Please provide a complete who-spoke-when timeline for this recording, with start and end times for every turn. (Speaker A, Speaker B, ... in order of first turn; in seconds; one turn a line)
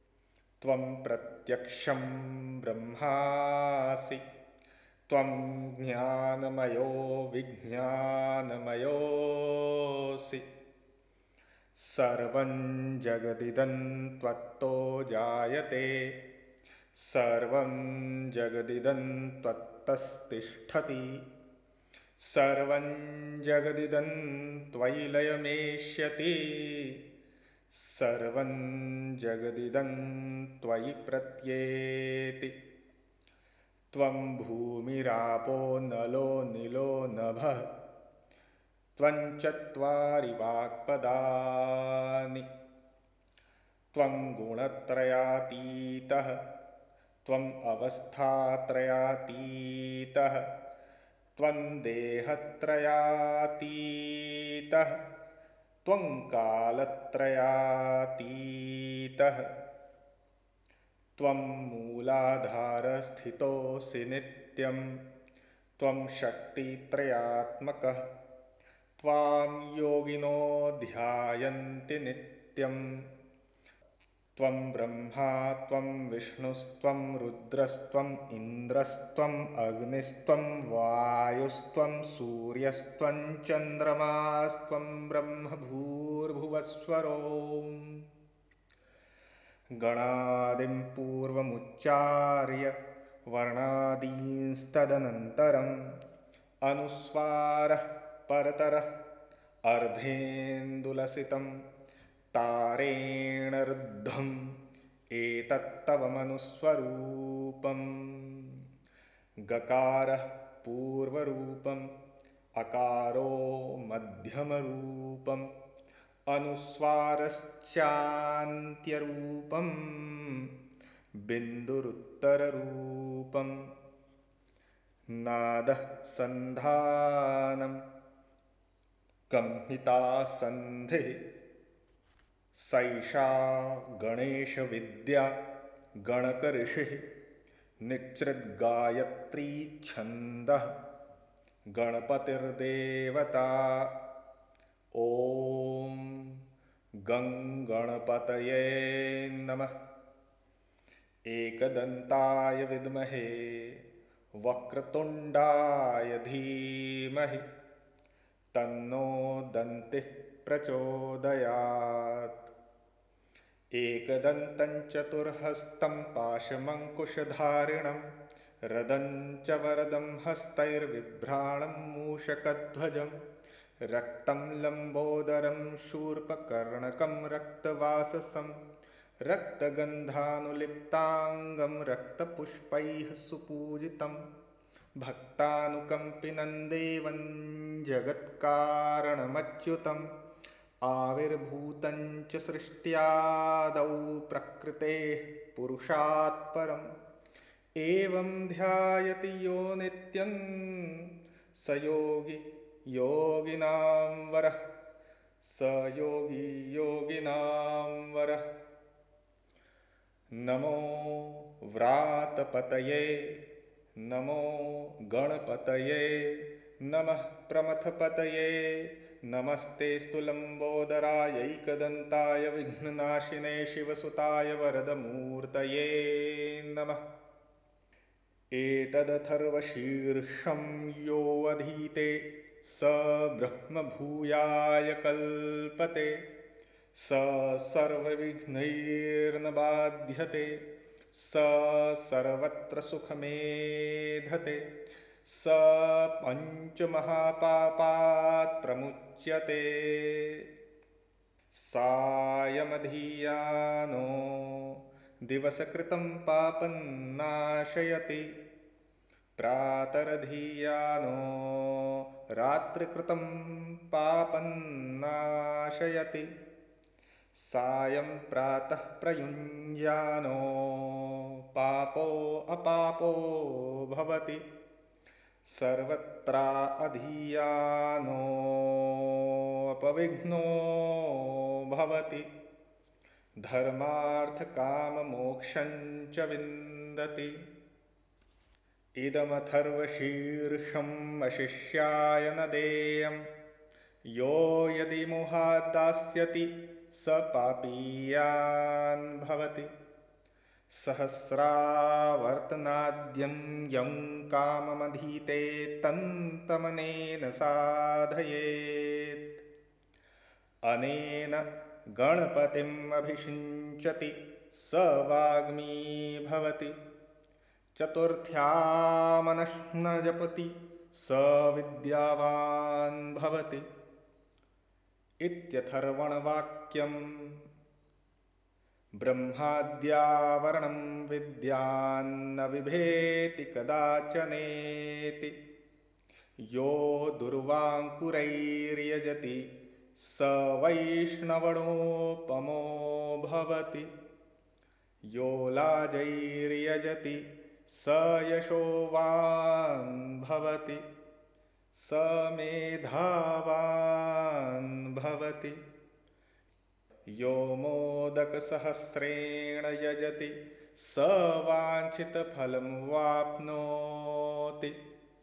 Speaker A: 0.6-4.2
Speaker A: 5.1-10.4
Speaker A: 11.8-16.2
Speaker A: 16.9-21.2
Speaker A: 22.2-27.0
Speaker A: 27.7-32.5
Speaker A: 33.9-37.7
Speaker A: 39.0-42.5
Speaker A: 43.9-46.4
Speaker A: 47.3-50.5
Speaker A: 51.4-55.0
Speaker A: 55.8-59.5
Speaker A: 61.2-65.0
Speaker A: 65.8-68.0
Speaker A: 69.0-73.0
Speaker A: 74.4-88.0
Speaker A: 89.8-92.8
Speaker A: 93.3-95.9
Speaker A: 96.6-98.9
Speaker A: 99.7-101.5
Speaker A: 102.3-104.5
Speaker A: 105.1-108.6
Speaker A: 109.5-111.9
Speaker A: 112.6-115.5
Speaker A: 116.3-120.5
Speaker A: 121.2-123.7
Speaker A: 125.1-127.8
Speaker A: 129.3-131.2
Speaker A: 132.6-135.4
Speaker A: 136.0-137.0
Speaker A: 137.8-140.7
Speaker A: 141.7-143.9
Speaker A: 144.9-146.4
Speaker A: 147.1-149.7
Speaker A: 151.3-153.8
Speaker A: 154.4-157.4
Speaker A: 158.5-162.4
Speaker A: 163.8-168.1
Speaker A: 168.7-173.2
Speaker A: 173.9-178.6
Speaker A: 179.2-184.2
Speaker A: 185.0-190.1
Speaker A: 190.8-196.9
Speaker A: 197.8-204.6
Speaker A: 205.4-208.4
Speaker A: 210.3-213.4
Speaker A: 214.0-227.0
Speaker A: 228.5-236.2
Speaker A: 236.9-240.6
Speaker A: 241.1-244.7
Speaker A: 245.2-250.4
Speaker A: 251.5-258.3
Speaker A: 259.4-266.3
Speaker A: 267.4-274.4
Speaker A: 275.4-282.3
Speaker A: 283.4-287.4
Speaker A: 289.0-293.3
Speaker A: 294.1-299.7
Speaker A: 300.7-309.3
Speaker A: 310.7-316.8
Speaker A: 317.8-323.7
Speaker A: 325.2-327.4
Speaker A: 329.0-335.4
Speaker A: 336.4-343.9
Speaker A: 345.1-350.8
Speaker A: 351.7-355.6
Speaker A: 357.2-364.8